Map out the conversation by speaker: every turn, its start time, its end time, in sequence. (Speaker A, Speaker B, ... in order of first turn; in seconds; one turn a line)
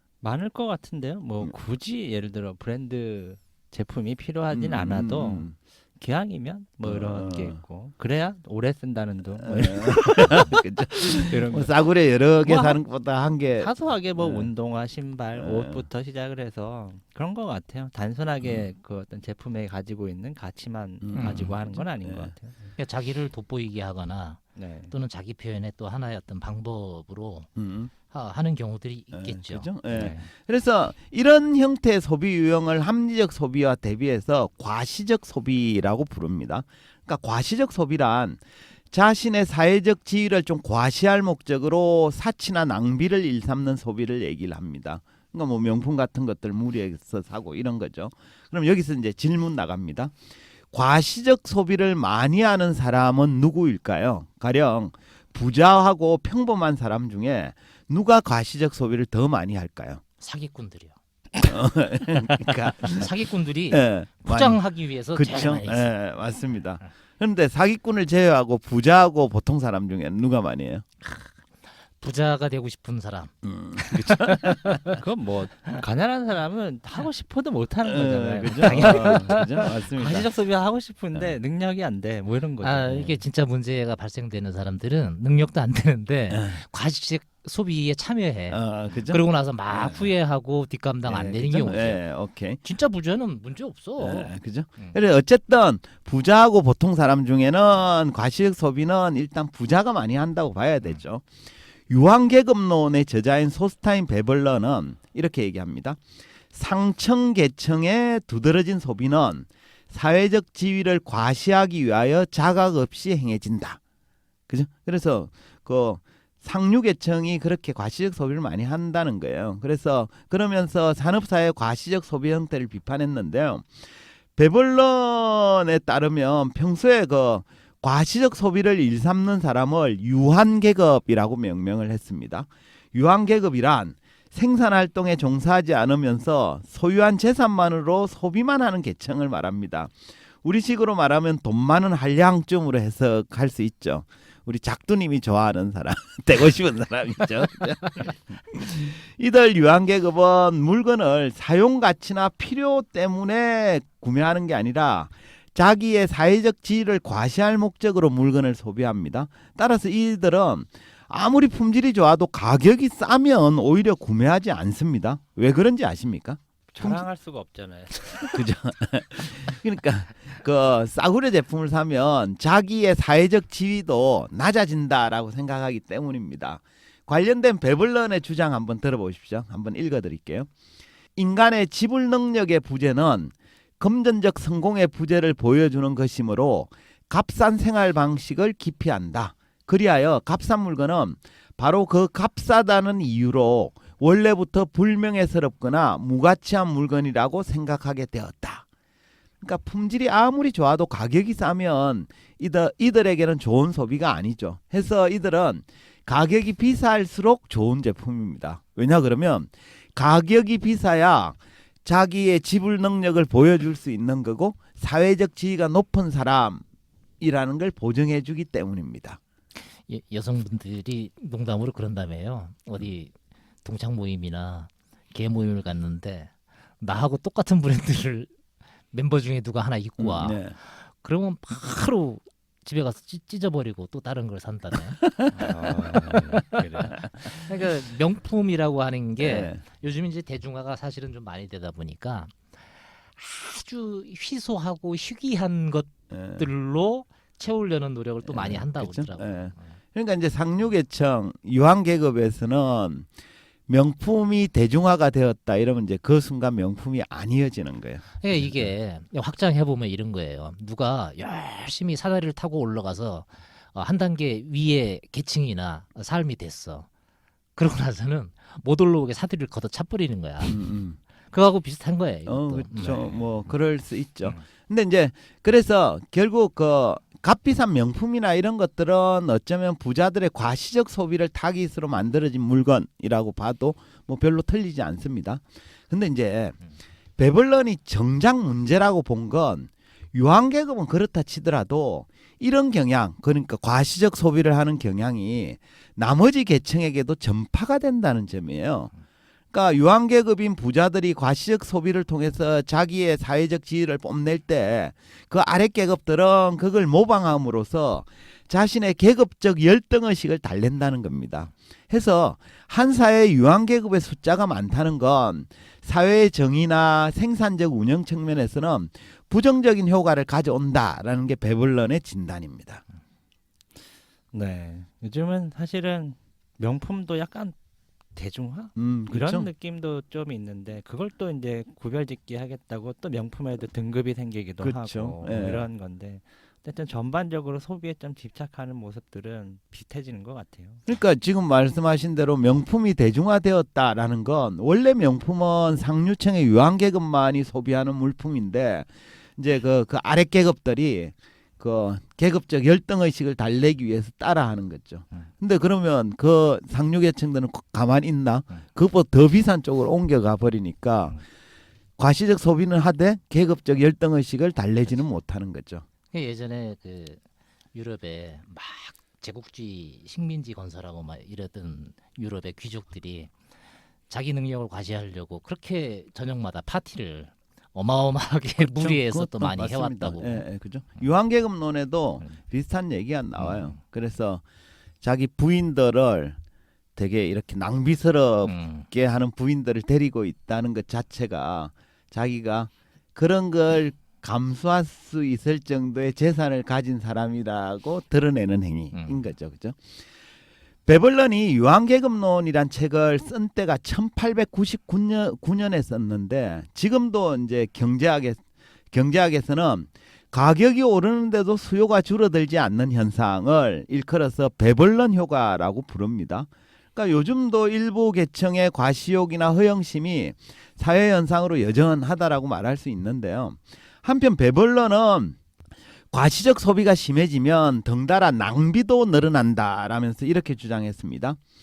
Speaker A: 0.2-11.7
Speaker B: 4.5-5.5
Speaker B: 6.8-7.6
Speaker B: 9.4-14.5
Speaker A: 12.4-12.8
Speaker A: 13.6-22.8
Speaker B: 15.3-15.8
Speaker B: 21.0-22.3
Speaker C: 21.1-21.6
Speaker C: 22.8-27.5
Speaker A: 24.6-24.9
Speaker B: 27.6-27.9
Speaker C: 28.1-30.2
Speaker B: 29.1-50.1
Speaker A: 29.9-30.2
Speaker B: 50.7-60.0
Speaker C: 60.2-61.0
Speaker B: 61.5-63.1
Speaker C: 62.8-65.9
Speaker B: 63.7-64.6
Speaker B: 65.1-70.8
Speaker C: 71.0-71.3
Speaker C: 72.0-75.0
Speaker B: 73.4-74.8
Speaker A: 74.9-83.2
Speaker B: 77.8-80.3
Speaker C: 78.7-79.4
Speaker C: 82.6-92.0
Speaker B: 86.3-86.6
Speaker B: 88.5-89.2
Speaker B: 89.7-90.0
Speaker A: 91.1-91.8
Speaker B: 91.6-92.6
Speaker C: 92.6-95.0
Speaker B: 94.0-101.3
Speaker B: 101.9-106.0
Speaker B: 106.5-113.8
Speaker B: 114.5-123.7
Speaker B: 124.4-167.0
Speaker A: 166.7-168.4
Speaker B: 168.3-180.5
Speaker B: 181.2-198.7
Speaker B: 199.4-216.6
Speaker B: 217.2-219.2
Speaker C: 219.9-223.1
Speaker C: 223.6-228.3
Speaker C: 228.9-242.3
Speaker B: 230.0-230.6
Speaker B: 235.0-235.6
Speaker A: 235.4-236.9
Speaker B: 236.1-237.0
Speaker B: 239.2-239.6
Speaker C: 243.2-249.8
Speaker B: 246.1-246.5
Speaker B: 248.2-253.1
Speaker B: 253.7-258.7
Speaker C: 258.2-266.9
Speaker C: 267.6-270.6
Speaker B: 270.4-271.0
Speaker C: 271.3-273.2
Speaker B: 272.3-286.6
Speaker B: 287.2-298.9
Speaker B: 299.5-322.8
Speaker A: 324.3-327.6
Speaker A: 328.2-340.8
Speaker B: 328.8-329.5
Speaker B: 334.6-335.7
Speaker B: 340.9-361.2
Speaker B: 362.0-365.9
Speaker C: 366.1-367.2
Speaker C: 367.7-373.3
Speaker C: 374.1-380.4
Speaker B: 378.6-384.4
Speaker C: 383.4-383.8
Speaker B: 385.0-386.4
Speaker B: 387.0-399.8
Speaker C: 388.4-388.9
Speaker C: 398.9-399.2
Speaker B: 400.9-425.4
Speaker B: 426.1-431.4